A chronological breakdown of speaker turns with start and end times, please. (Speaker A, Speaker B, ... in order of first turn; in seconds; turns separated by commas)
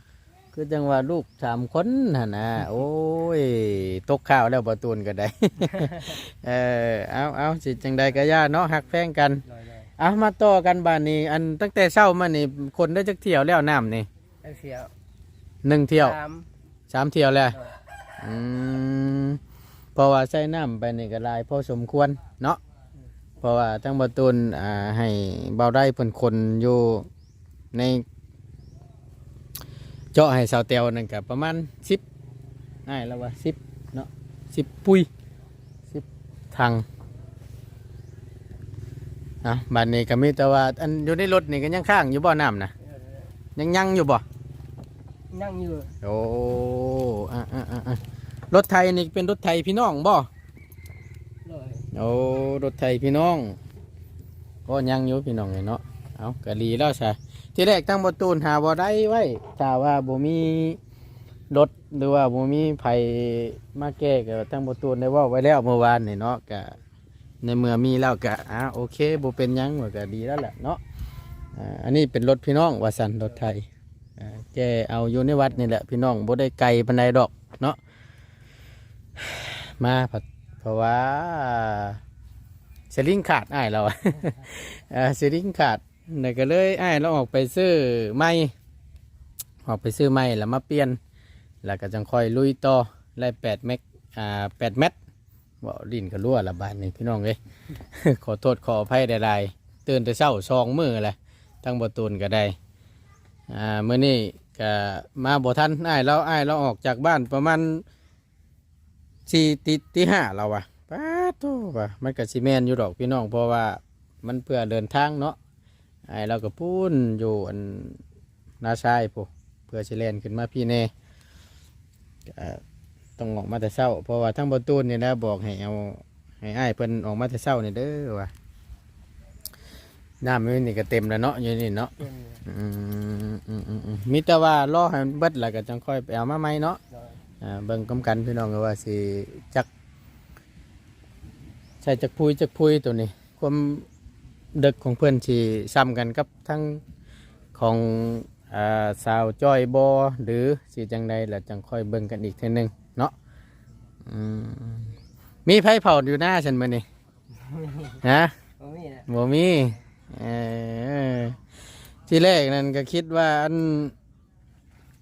Speaker A: 0.5-9.4, Speaker B: 5.7-6.1, Speaker B: 9.5-9.9, Speaker A: 10.0-14.1, Speaker B: 14.4-14.9, Speaker A: 15.6-16.2, Speaker B: 16.0-16.5, Speaker A: 16.9-17.5, Speaker A: 18.2-19.4, Speaker A: 19.9-22.6, Speaker A: 23.4-27.1, Speaker A: 27.7-28.0, Speaker A: 30.1-32.0, Speaker A: 32.9-35.1, Speaker A: 35.9-36.8, Speaker A: 39.4-42.7, Speaker B: 42.8-43.3, Speaker A: 43.5-44.2, Speaker B: 45.3-45.9, Speaker A: 46.0-50.3, Speaker B: 51.4-51.9, Speaker A: 51.9-53.6, Speaker A: 54.6-60.8, Speaker A: 61.5-66.8, Speaker A: 67.4-70.8, Speaker A: 71.5-73.7, Speaker A: 74.2-77.8, Speaker A: 79.2-82.0, Speaker A: 82.9-88.5, Speaker A: 89.6-91.0, Speaker A: 91.6-94.9, Speaker A: 95.6-97.4, Speaker A: 97.9-102.5, Speaker A: 103.5-107.8, Speaker A: 109.3-115.4, Speaker A: 116.1-118.0, Speaker A: 118.6-120.9, Speaker A: 122.3-122.6, Speaker A: 123.2-128.3, Speaker A: 130.2-131.9, Speaker B: 132.0-132.4, Speaker A: 132.4-136.8, Speaker B: 136.9-137.2, Speaker A: 137.4-139.7, Speaker A: 141.8-143.8, Speaker A: 144.5-146.8, Speaker A: 147.5-153.1, Speaker A: 154.1-154.9, Speaker A: 155.4-156.8, Speaker B: 157.3-158.0, Speaker A: 158.0-158.3, Speaker B: 158.6-159.1, Speaker A: 159.1-161.4, Speaker A: 162.1-163.9